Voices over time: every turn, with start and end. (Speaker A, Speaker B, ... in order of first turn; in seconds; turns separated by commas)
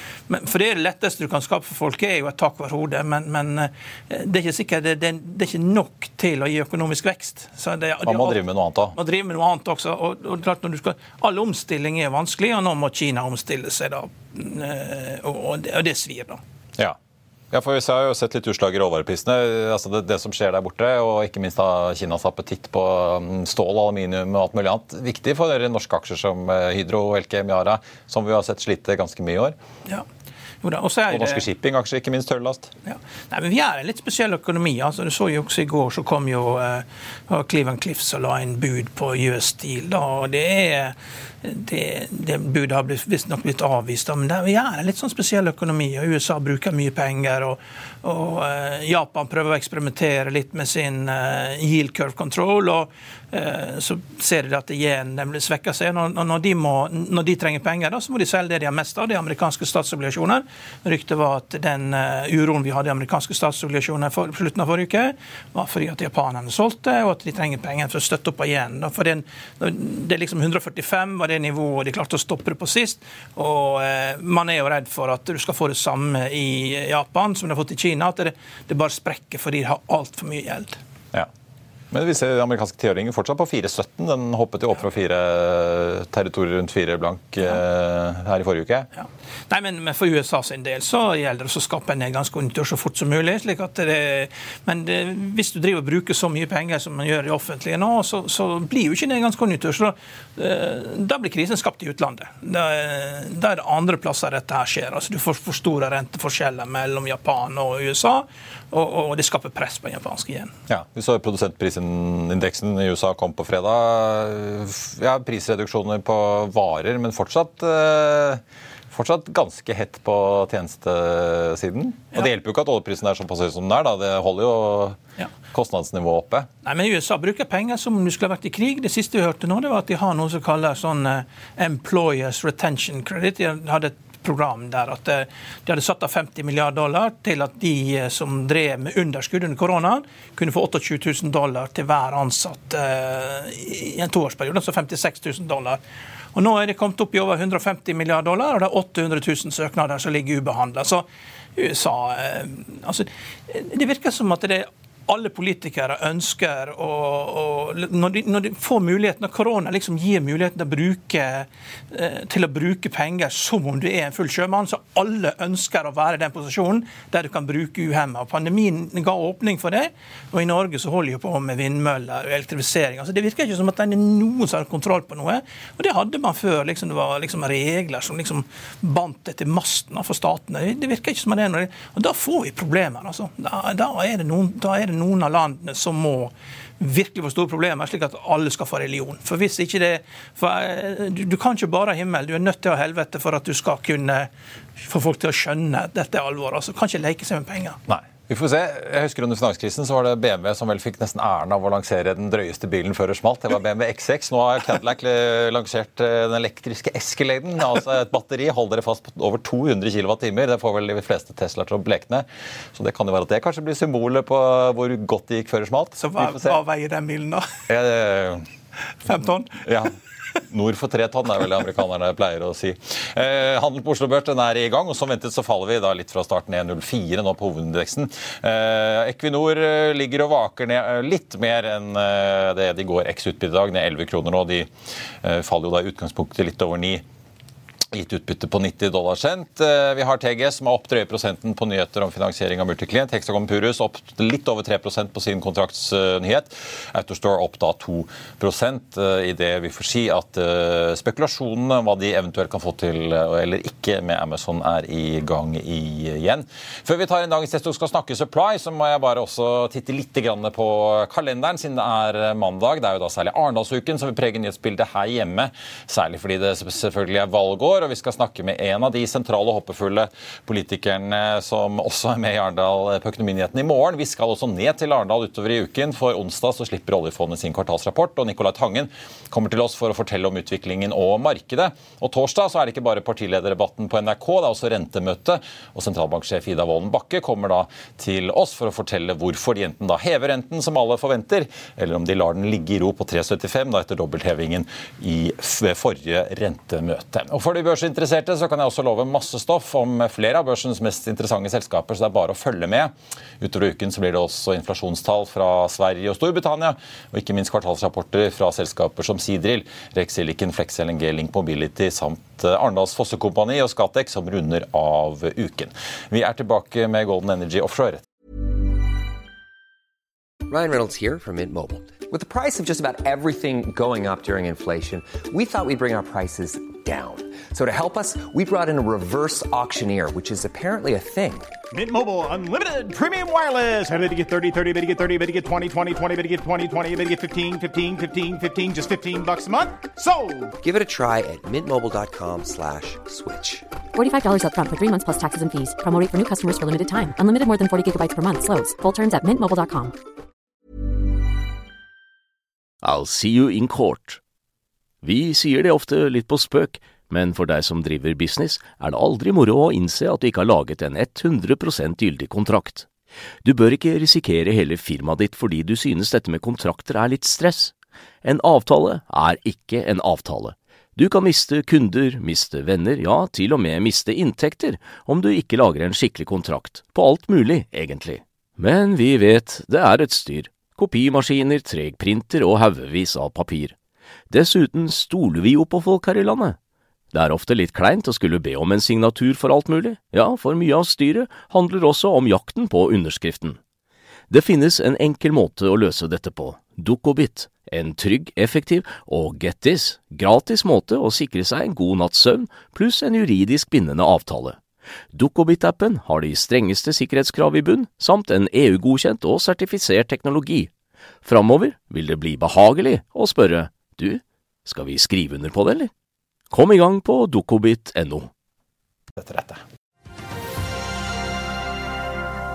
Speaker A: 0.3-8.4, Speaker B: 8.0-9.0, Speaker A: 8.9-16.4, Speaker B: 17.5-29.6, Speaker A: 30.6-31.4, Speaker B: 31.1-32.7, Speaker A: 32.9-80.8, Speaker B: 81.9-88.9, Speaker A: 89.0-110.5, Speaker B: 110.7-125.0, Speaker B: 125.5-126.5, Speaker A: 126.6-145.8, Speaker A: 146.3-197.8, Speaker B: 197.9-216.6, Speaker A: 216.0-217.5, Speaker B: 217.7-218.5, Speaker A: 219.1-219.6, Speaker B: 219.7-219.9, Speaker B: 220.5-234.7, Speaker B: 235.2-237.0, Speaker B: 237.9-318.1, Speaker C: 320.5-331.5, Speaker D: 331.7-340.5, Speaker C: 340.6-343.7, Speaker E: 343.9-349.9, Speaker F: 352.8-354.2, Speaker F: 355.0-362.9, Speaker F: 363.4-383.8, Speaker F: 384.3-386.6, Speaker F: 387.1-393.6, Speaker F: 394.3-404.6, Speaker F: 405.1-410.7, Speaker F: 411.2-415.9, Speaker F: 416.5-418.3, Speaker B: 419.1-419.6